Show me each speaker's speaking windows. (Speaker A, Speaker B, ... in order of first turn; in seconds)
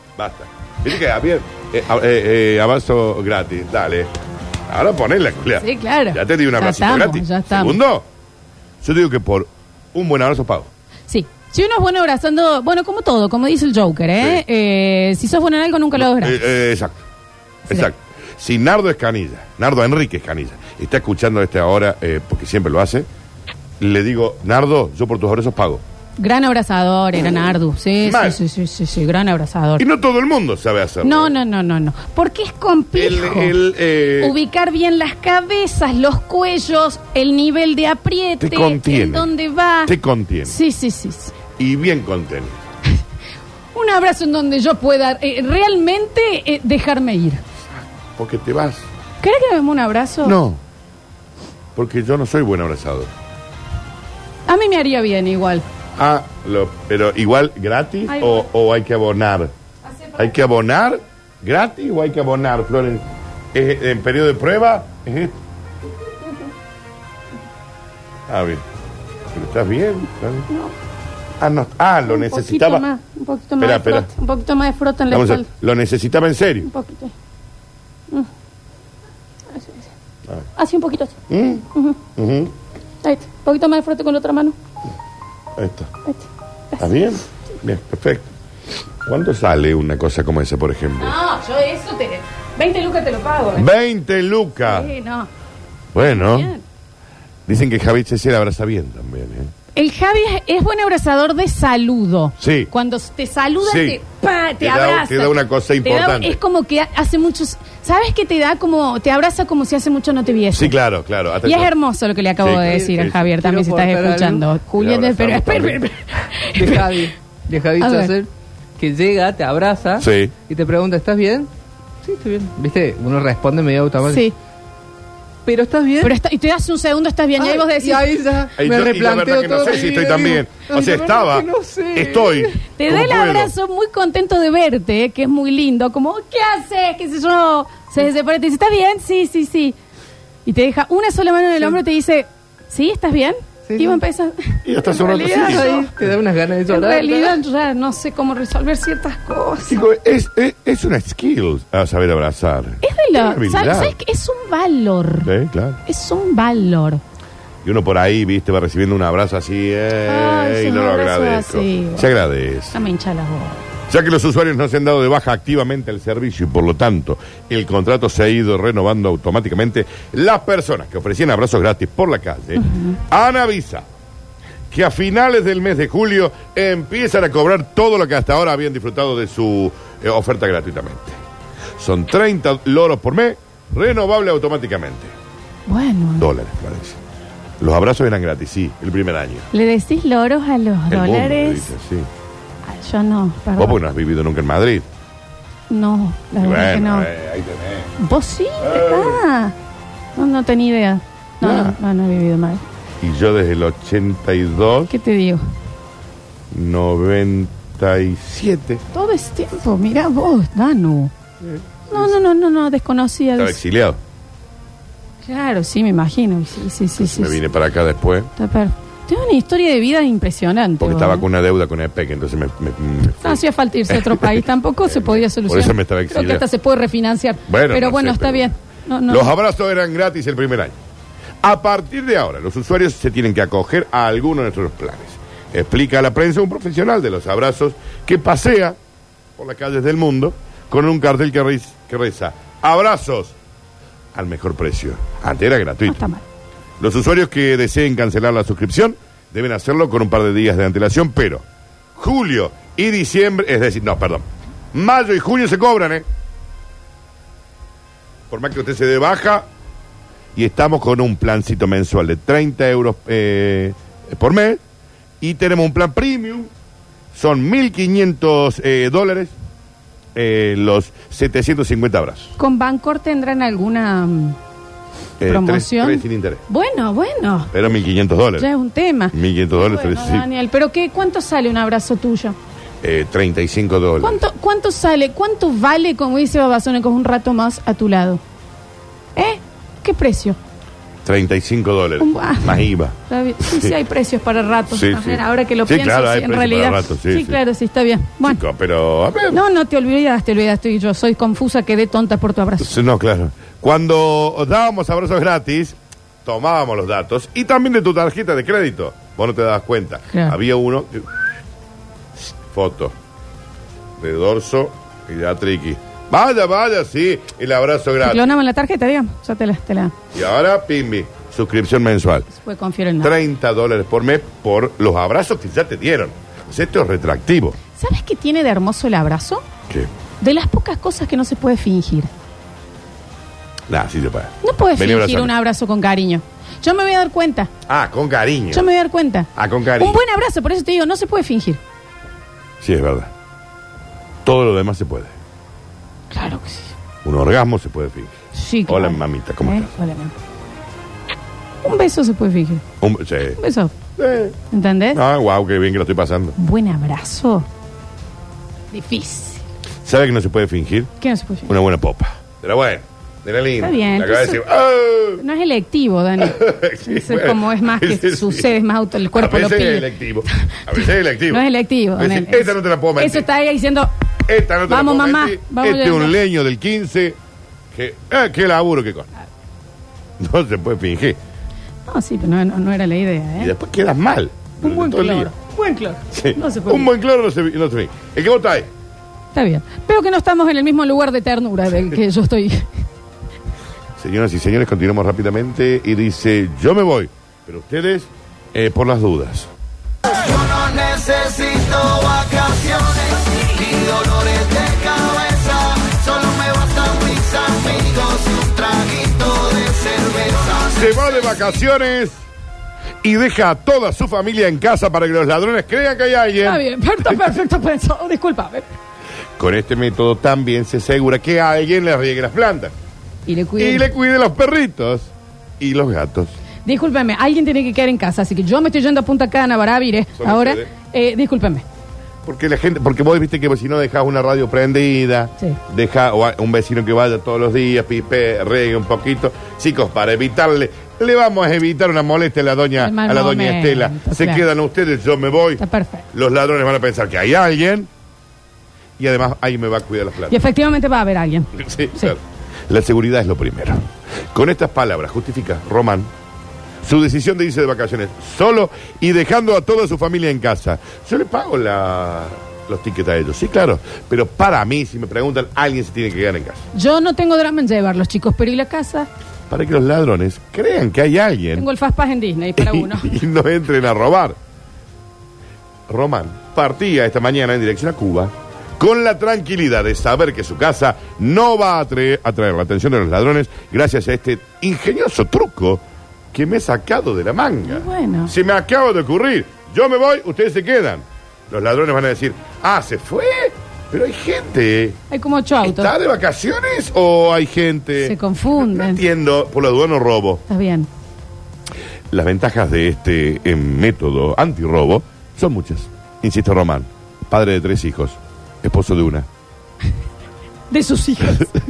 Speaker A: 0.2-4.1, 4.7-8.1, 8.8-10.7, 15.9-17.0, 17.7-23.1, 23.8-25.8, 28.0-28.4, 29.8-31.3, 32.9-34.4, 38.4-39.3, 39.8-40.5, 41.6-42.6, 47.7-48.9, 50.2-50.6, 51.7-53.1, 56.0-59.5, 60.2-65.4, 68.3-68.6, 69.3-70.5, 71.4-72.8, 73.6-74.1, 75.1-76.7, 81.3-82.5, 85.5-85.9, 86.8-88.3, 89.0-91.1, 93.5-94.9, 95.9-96.5, 97.5-99.5, 102.4-102.7, 103.6-104.0, 104.6-106.4, 110.5-111.7, 112.4-113.3, 114.8-115.8, 120.0-120.3, 128.6-133.5, 144.6-145.7, 149.7-153.9, 155.2-155.8, 157.6-162.8, 163.9-173.9, 174.7-181.2, 181.8-185.1, 186.2-187.0, 187.6-189.5, 190.9-192.1, 193.6-194.9, 196.4-197.9, 198.6-199.2, 201.4-201.8, 203.0-204.9, 206.5-208.8, 211.4-212.1, 213.4-214.0, 217.0-218.3, 220.8-226.4, 227.5-228.5, 229.1-230.8, 231.4-238.8, 239.4-243.3, 244.1-246.0, 246.8-251.4, 251.9-256.1, 258.3-259.5, 260.3-264.6, 265.2-266.5, 267.1-269.3, 270.1-272.3, 275.2-276.4, 277.5-278.5, 279.1-280.2, 282.8-284.2, 291.0-293.7, 294.7-297.4, 298.2-299.4, 302.6-311.3, 312.1-312.9, 314.0-318.3, 320.1-322.3, 323.0-327.6, 333.7-335.3, 337.7-338.7, 339.3-340.0, 342.6-343.1, 344.2-345.1, 347.0-348.1, 348.7-349.7, 352.8-353.4, 354.0-354.4, 354.9-356.3, 359.8-360.9, 361.5-365.2, 366.2-368.5, 369.1-371.4, 372.0-373.3, 374.2-377.2, 377.7-379.1, 380.2-381.2, 383.4-385.3, 386.1-388.7, 394.0-399.5, 400.3-403.0, 403.6-412.2, 413.0-417.2, 419.4-422.7, 423.6-426.3, 430.2-430.7, 432.2-445.6, 446.1-447.9, 449.0-450.4, 451.5-456.1, 456.8-466.6, 469.5-471.7, 472.6-474.4, 475.9-495.0, 495.6-500.4, 502.1-509.3
Speaker B: 5.6-7.8, 11.1-16.4, 26.2-29.8, 31.0-33.5, 34.2-39.9, 40.5-41.3, 43.7-47.4, 49.2-50.4, 54.5-55.6, 58.1-58.5, 59.9-60.3, 70.5-70.7, 72.0-75.5, 76.6-77.1, 79.5-79.9, 80.5-81.2, 81.7-82.0, 83.0-84.5, 86.0-86.9, 91.0-93.7, 94.6-95.3, 96.0-96.6, 99.8-110.8, 111.4-117.0, 117.8-118.1, 124.0-124.3, 126.0-128.1, 132.7-139.8, 140.4-145.9, 146.7-149.8, 152.8-155.3, 155.8-157.0, 160.0-162.1, 162.7-163.6, 172.6-172.9, 185.7-186.3, 189.5-191.7, 192.7-193.8, 195.7-197.1, 198.0-199.5, 200.2-202.6, 204.9-205.4, 208.9-211.1, 211.9-213.6, 215.2-217.4, 218.4-221.2, 223.2-229.3, 245.8-246.2, 272.4-274.4, 275.2-277.5, 278.4-282.4, 284.0-288.2, 289.1-290.4, 292.0-298.4, 299.3-302.7, 310.1-310.4, 318.0-319.9, 322.3-323.2, 327.8-329.4, 330.2-332.1, 334.4-337.5, 338.5-341.6, 346.1-346.7, 348.3-350.1, 351.6-352.6, 353.4-353.7, 354.5-355.0, 356.4-357.5, 358.7-359.4, 361.0-361.5, 363.6-364.4, 365.2-369.9, 370.5-373.9, 374.7-376.2, 381.9-383.5, 384.6-386.9, 389.3-392.7, 416.4-418.7, 423.3-423.9, 426.6-431.6, 442.8-444.4, 445.6-446.0, 450.3-452.1, 466.7-469.1, 471.5-473.1, 487.6-488.3, 495.1-495.9, 498.0-499.0, 500.5-500.9, 510.7-511.5
Speaker C: 112.7-114.5, 116.5-121.5, 122.0-124.2, 125.5-126.1, 127.4-132.6, 143.7-144.0, 145.1-147.4